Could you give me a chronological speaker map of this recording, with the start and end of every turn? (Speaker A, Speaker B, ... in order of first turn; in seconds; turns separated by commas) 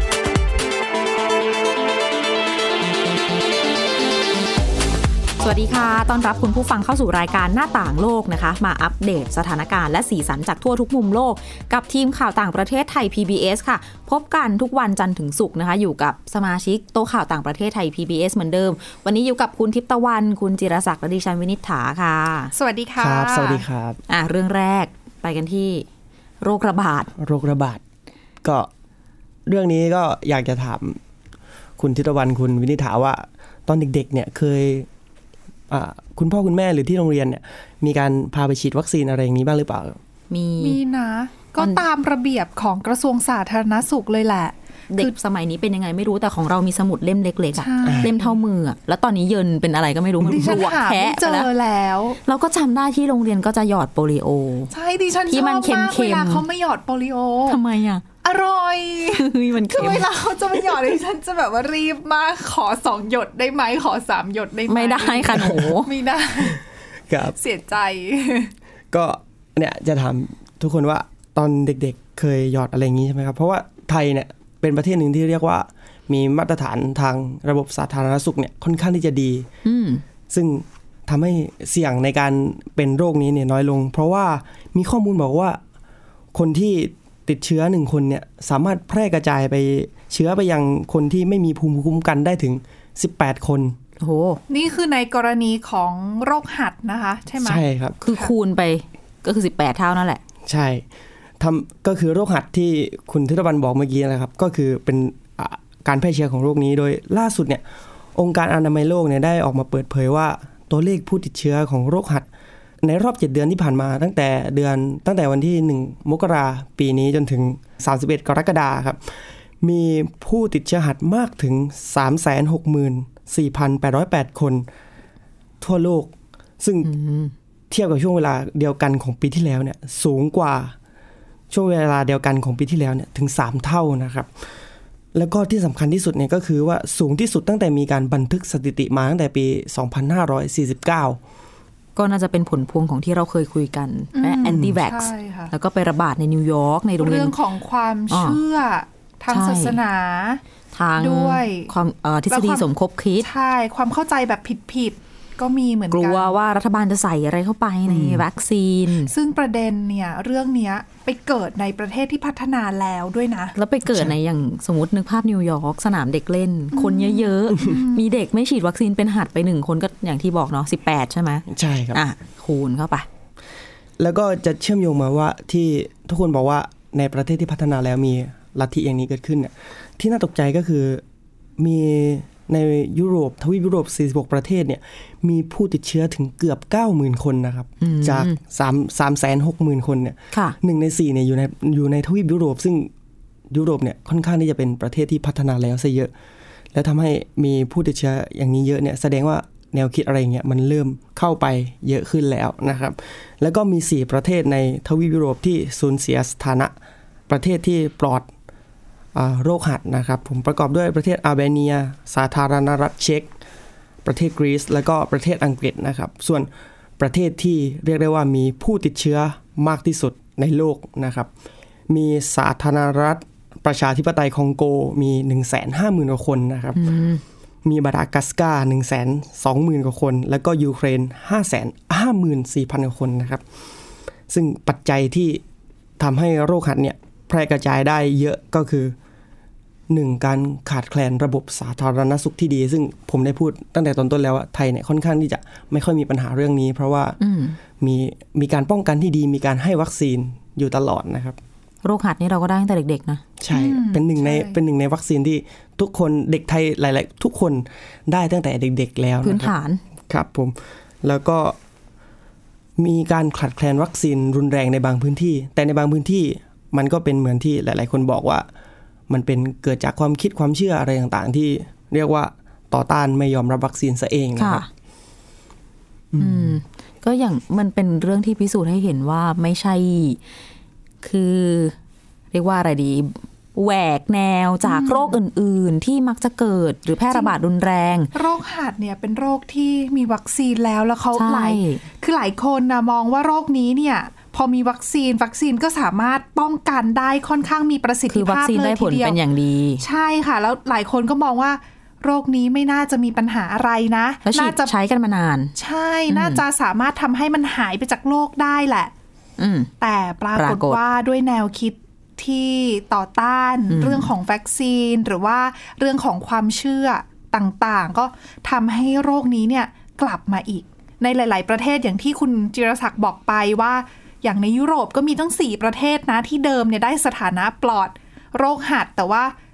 Speaker A: 5.4-22.5, Speaker B: 22.6-23.6, Speaker C: 23.0-24.0, Speaker A: 24.1-25.9, Speaker A: 26.4-27.1, Speaker C: 27.2-27.8, Speaker C: 28.4-28.7, Speaker C: 29.5-31.0, Speaker C: 31.8-34.9, Speaker C: 35.7-40.0, Speaker A: 40.3-40.8, Speaker B: 40.6-45.1, Speaker A: 41.6-41.8, Speaker A: 44.9-51.5, Speaker B: 47.6-48.3, Speaker C: 47.9-48.1, Speaker B: 50.2-52.2, Speaker A: 52.2-54.7, Speaker B: 54.7-57.6, Speaker A: 55.3-56.4, Speaker A: 57.5-58.0, Speaker B: 58.2-66.6, Speaker A: 59.1-60.1, Speaker A: 64.7-65.9, Speaker C: 67.1-67.4, Speaker B: 67.4-68.5, Speaker C: 68.9-79.5, Speaker A: 79.7-80.0, Speaker C: 80.3-85.6, Speaker C: 86.3-93.8, Speaker A: 94.0-94.4, Speaker B: 94.5-98.3, Speaker C: 97.4-98.0, Speaker A: 98.0-100.2, Speaker C: 100.5-100.8, Speaker C: 101.4-107.6, Speaker C: 108.2-112.3, Speaker C: 112.8-124.7, Speaker C: 125.6-126.9, Speaker A: 126.8-127.3, Speaker C: 127.7-130.8, Speaker C: 131.5-134.3, Speaker C: 135.1-141.2, Speaker A: 142.0-147.4, Speaker B: 144.1-145.5, Speaker B: 147.0-150.4, Speaker A: 148.1-148.4, Speaker A: 149.3-149.8, Speaker A: 150.7-153.3, Speaker B: 151.0-151.7, Speaker B: 152.3-152.7, Speaker B: 153.2-156.3, Speaker A: 155.9-159.1, Speaker C: 157.9-158.2, Speaker B: 159.1-163.6, Speaker A: 163.6-173.1, Speaker C: 163.9-164.1, Speaker B: 166.7-168.1, Speaker C: 171.5-172.0, Speaker C: 174.0-181.0, Speaker C: 181.6-192.9, Speaker A: 187.8-188.4, Speaker C: 193.5-196.1, Speaker C: 196.7-206.7, Speaker C: 207.3-208.3, Speaker C: 209.2-213.3, Speaker C: 214.1-221.3, Speaker C: 221.9-226.8, Speaker A: 226.8-227.2, Speaker C: 227.6-233.4, Speaker C: 234.3-235.4, Speaker C: 236.0-239.0, Speaker C: 239.9-247.2, Speaker A: 247.2-247.6, Speaker C: 247.8-251.4, Speaker A: 251.8-253.2, Speaker C: 253.4-259.5, Speaker B: 253.5-254.6, Speaker A: 259.2-259.8, Speaker C: 260.1-261.6, Speaker C: 262.8-268.5, Speaker C: 269.1-274.7, Speaker A: 274.4-274.7, Speaker C: 276.1-276.6, Speaker A: 276.2-280.2, Speaker A: 281.0-281.8, Speaker A: 282.3-288.1, Speaker B: 284.6-285.2, Speaker B: 288.1-299.2, Speaker A: 291.1-291.8, Speaker A: 298.1-299.8, Speaker B: 299.8-304.7, Speaker A: 304.2-305.5, Speaker B: 305.6-308.9, Speaker A: 306.1-306.4, Speaker A: 309.4-309.7, Speaker B: 309.8-329.3, Speaker A: 310.4-310.8, Speaker A: 313.7-314.1